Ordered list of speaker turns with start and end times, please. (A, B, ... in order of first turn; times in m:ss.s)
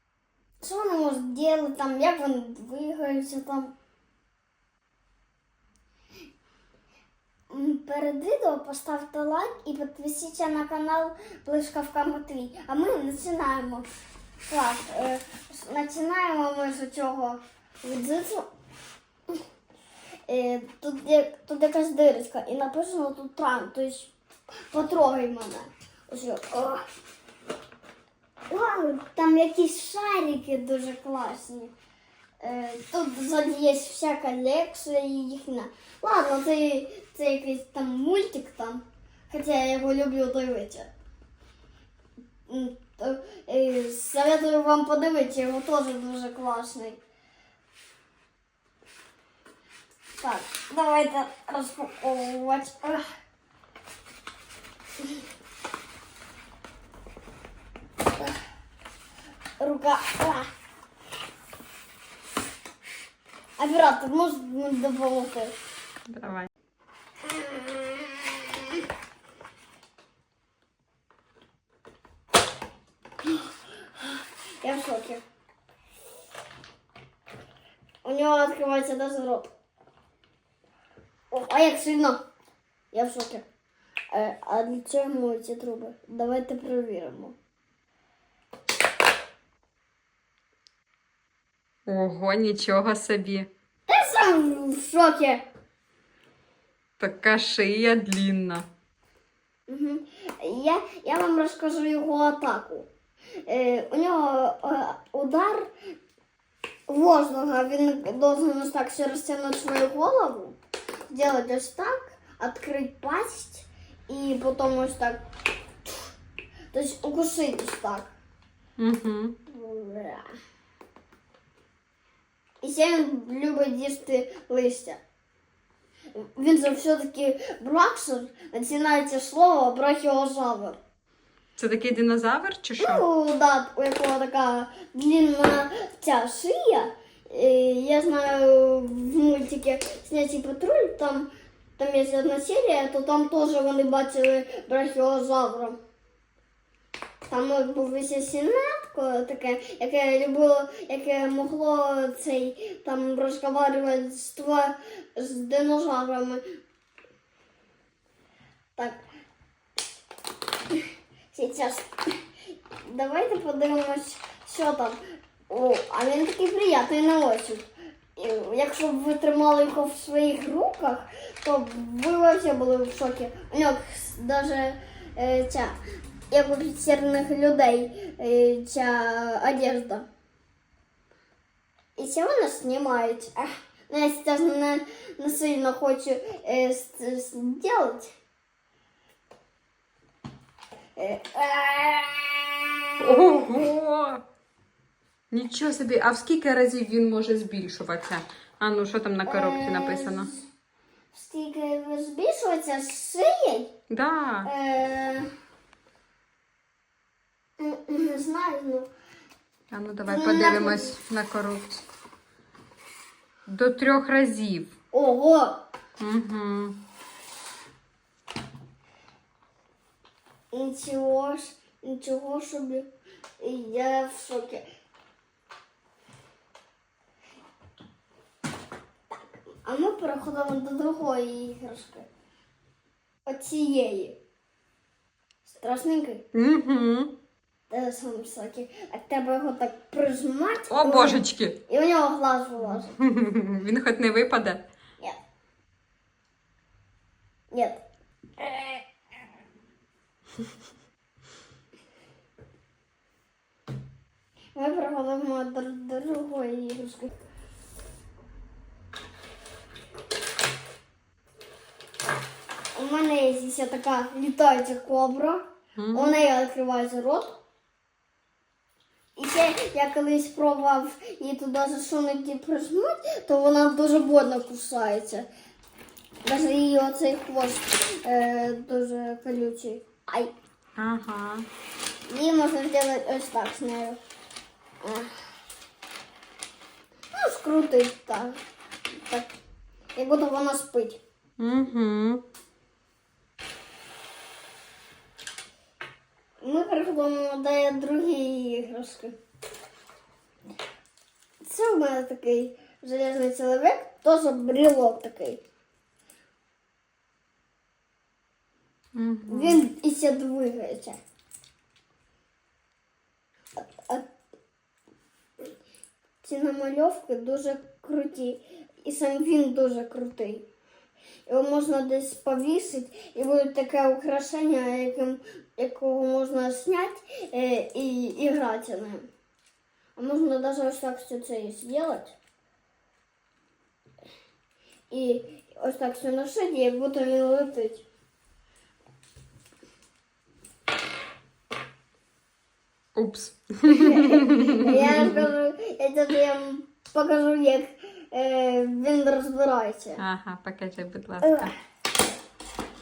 0:00.6-0:03.7 A
0:07.5-0:13.9 A
0:14.5-0:18.5 A
0:20.3-0:24.1 A
0:24.7-0:26.9 A
0:28.5-0:31.7 A
0:32.4-0:40.9 A
0:42.5-0:47.0 A
0:50.2-0:53.1 A
0:59.6-1:00.5 A
1:03.6-1:05.6 A
1:06.1-1:06.5 B
1:07.4-1:07.8 A
1:13.2-1:15.2 A
1:18.0-1:19.5 A
1:21.3-1:22.2 A
1:22.9-1:23.4 A
1:24.1-1:27.4 A
1:31.9-1:33.5 B
1:33.9-1:35.4 A
1:37.0-1:38.7 B
1:39.7-1:42.9 A
1:43.4-1:45.7 A
1:46.9-1:50.6 A
1:51.1-1:55.2 A
1:56.7-1:58.2 A
1:58.8-1:59.4 B
1:59.5-2:00.3 A
2:02.6-2:05.0 A
2:06.1-2:10.8 A
2:11.6-2:13.0 B
2:12.8-2:25.8 A
2:27.2-2:36.4 A
2:38.8-2:39.0 A
2:41.3-2:41.9 A
2:42.8-2:55.8 A
2:56.3-3:00.1 A
3:02.0-3:08.1 A
3:11.0-3:13.7 A
3:13.0-3:14.2 B
3:15.3-3:20.3 B
3:19.3-3:20.4 A
3:21.1-3:23.7 A
3:23.9-3:24.5 B
3:24.4-3:25.3 A
3:27.6-3:28.9 A
3:29.7-3:31.8 B
3:30.1-3:31.0 A
3:33.5-3:34.7 B
3:34.9-3:35.6 A
3:36.0-3:36.8 B
3:40.5-3:44.7 A
3:49.1-3:52.1 A
3:53.3-3:54.2 A
3:55.4-3:56.2 A
3:56.3-3:57.1 B
3:57.7-4:03.0 A
4:00.7-4:01.6 B
4:02.6-4:04.6 B
4:07.5-4:07.8 A
4:08.4-4:08.8 A
4:14.6-4:17.1 A
4:22.8-4:27.4 A
4:25.8-4:26.2 B
4:29.2-4:35.3 A
4:36.2-4:40.3 A
4:40.8-4:41.5 B
4:42.1-4:44.0 A
4:44.8-4:45.2 A
4:47.1-4:48.4 A
4:48.9-4:49.3 A
4:50.0-4:51.0 A
4:51.4-4:52.2 B
4:56.4-4:59.2 A
5:01.4-5:05.4 A
5:09.0-5:09.7 B
5:09.3-5:11.0 A
5:13.6-5:14.1 A
5:16.2-5:20.5 A
5:21.3-5:29.1 A
5:30.0-5:32.2 A
5:34.9-5:37.8 A
5:43.0-5:45.3 B
5:43.7-5:50.0 A
5:50.0-5:51.5 B
5:51.2-5:51.5 A